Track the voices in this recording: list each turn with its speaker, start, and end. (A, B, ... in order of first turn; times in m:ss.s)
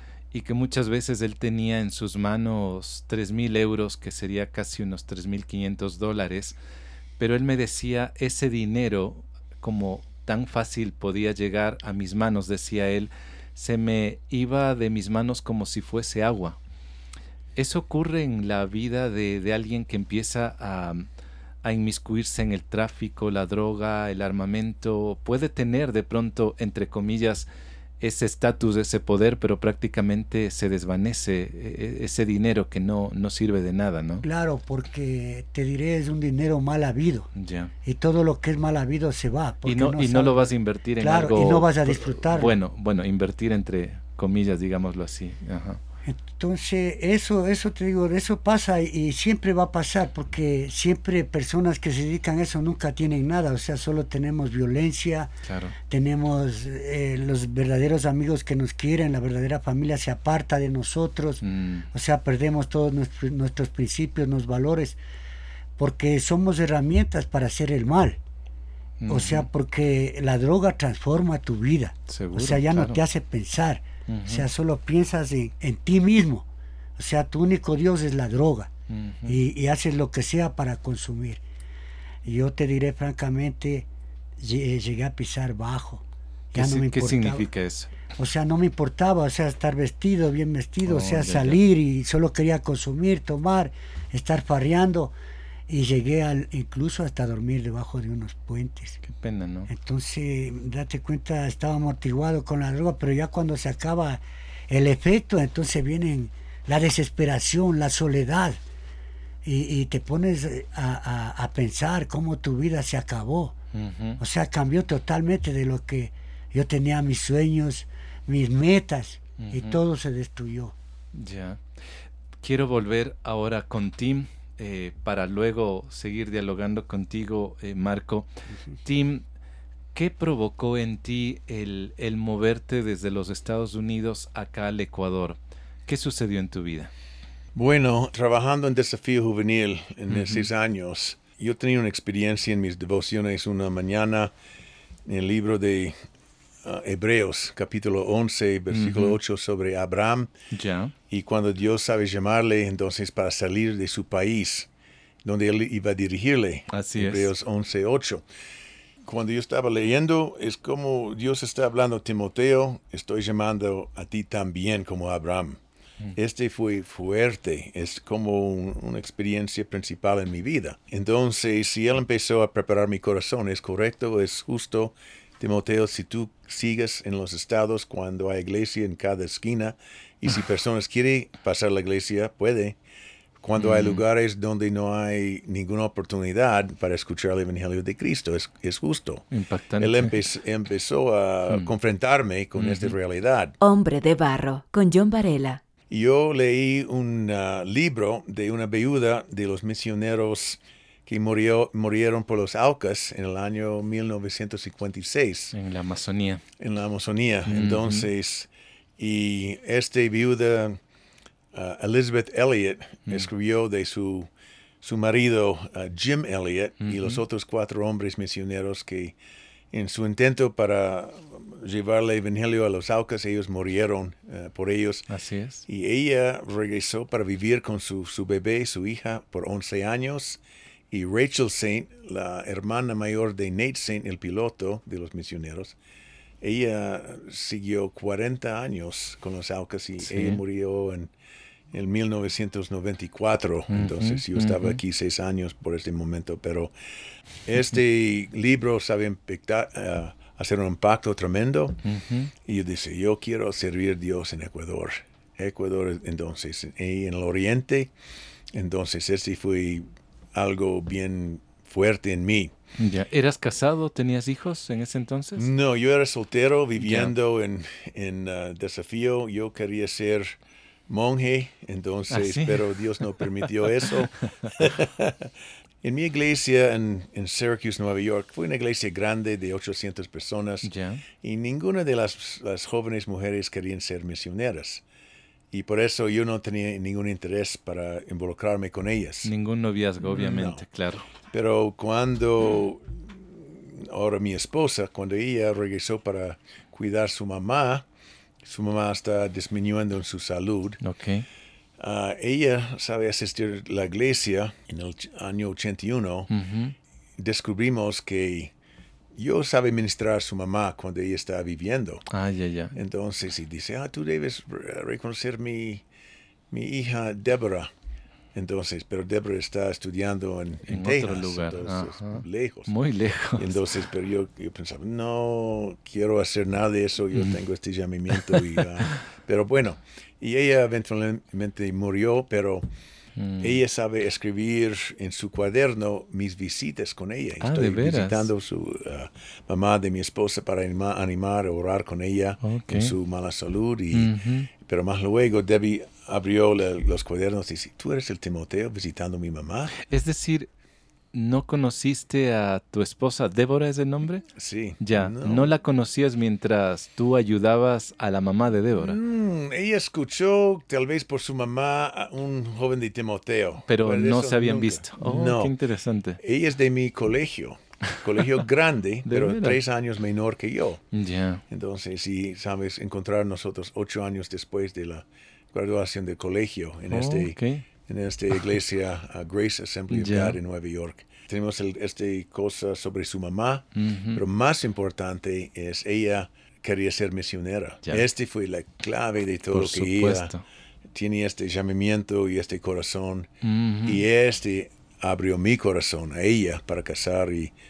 0:00.3-0:06.6 A
0:07.2-0:16.6 A
0:17.6-0:21.1 A
0:21.6-0:27.5 A
0:28.0-0:34.2 A
0:34.2-0:37.3 B
0:37.4-0:37.7 A
0:37.8-0:40.5 B
0:39.6-0:45.8 A
0:41.0-0:42.5 B
0:46.1-0:55.3 B
0:55.4-0:55.8 A
0:55.9-1:05.0 B
1:01.4-1:01.9 A
1:05.8-1:08.2 B
1:09.0-1:09.5 A
1:09.1-1:18.7 B
1:12.1-1:13.0 A
1:14.1-1:14.5 A
1:18.9-1:19.4 A
1:19.3-1:21.4 B
1:22.2-1:23.9 B
1:24.4-1:27.5 B
1:26.6-1:27.9 A
1:28.2-1:35.1 B
1:30.9-1:31.6 A
1:35.7-1:39.0 B
1:39.1-1:39.7 A
1:39.7-1:48.6 B
1:49.4-1:53.6 B
1:53.7-1:54.2 A
1:54.2-2:00.8 B
1:59.4-1:59.8 A
2:01.1-2:01.6 A
2:02.4-2:08.3 A
2:08.8-2:09.2 A
2:10.0-2:16.9 A
2:17.6-2:24.3 C
2:20.1-2:20.5 A
2:25.1-2:26.0 C
2:26.6-2:30.3 C
2:28.7-2:29.2 A
2:30.5-2:30.9 A
2:31.1-2:34.7 C
2:35.2-2:38.2 C
2:36.7-2:37.3 A
2:39.0-2:45.6 C
2:46.2-3:02.8 C
3:03.4-3:09.3 C
3:03.6-3:04.0 A
3:09.3-3:10.2 A
3:09.8-3:13.6 C
3:12.6-3:13.0 A
3:13.6-3:15.6 D
3:15.9-3:25.6 C
3:25.5-3:26.4 A
3:26.6-3:30.8 C
3:27.5-3:28.1 A
3:31.5-3:34.3 C
3:34.8-3:39.2 C
3:36.8-3:37.2 A
3:39.7-3:45.1 C
3:45.1-3:45.6 A
3:45.7-3:55.8 C
3:56.4-4:01.1 C
4:00.0-4:00.4 A
4:01.7-4:06.7 C
4:03.7-4:04.8 A
4:07.5-4:11.8 C
4:11.8-4:12.3 A
4:12.4-4:17.9 C
4:18.5-4:22.5 C
4:22.8-4:25.5 A
4:25.4-4:40.7 C
4:26.8-4:27.1 A
4:32.1-4:32.7 A
4:33.2-4:33.5 A
4:34.2-4:34.5 A
4:40.6-4:41.1 A
4:41.2-4:44.8 C
4:45.5-4:49.3 C
4:49.2-4:51.1 A
4:50.0-4:50.6 C
4:51.3-4:57.9 C
4:58.4-5:00.8 C
5:00.8-5:01.3 A
5:01.8-5:06.3 C
5:06.3-5:06.8 A
5:07.2-5:08.5 C
5:09.2-5:12.1 C
5:12.1-5:12.8 A
5:12.7-5:15.8 C
5:16.5-5:17.7 C
5:18.3-5:22.7 C
5:20.7-5:23.6 A
5:23.4-5:32.7 C
5:28.3-5:29.0 A
5:33.2-5:33.6 A
5:33.4-5:49.8 C
5:37.4-5:38.3 A
5:42.4-5:42.9 A
5:43.9-5:44.5 A
5:49.8-5:50.5 A
5:51.1-5:54.3 A
5:54.3-5:55.5 C
5:54.8-5:59.0 A
5:58.8-6:05.5 C
6:03.7-6:06.2 A
6:06.2-6:10.8 C
6:09.1-6:09.6 A
6:10.9-6:11.4 A
6:11.5-6:30.3 C
6:16.9-6:17.6 A
6:19.9-6:20.4 A
6:23.8-6:24.2 A
6:29.5-6:30.4 A
6:30.9-6:33.3 C
6:33.4-6:34.0 A
6:33.8-6:37.5 C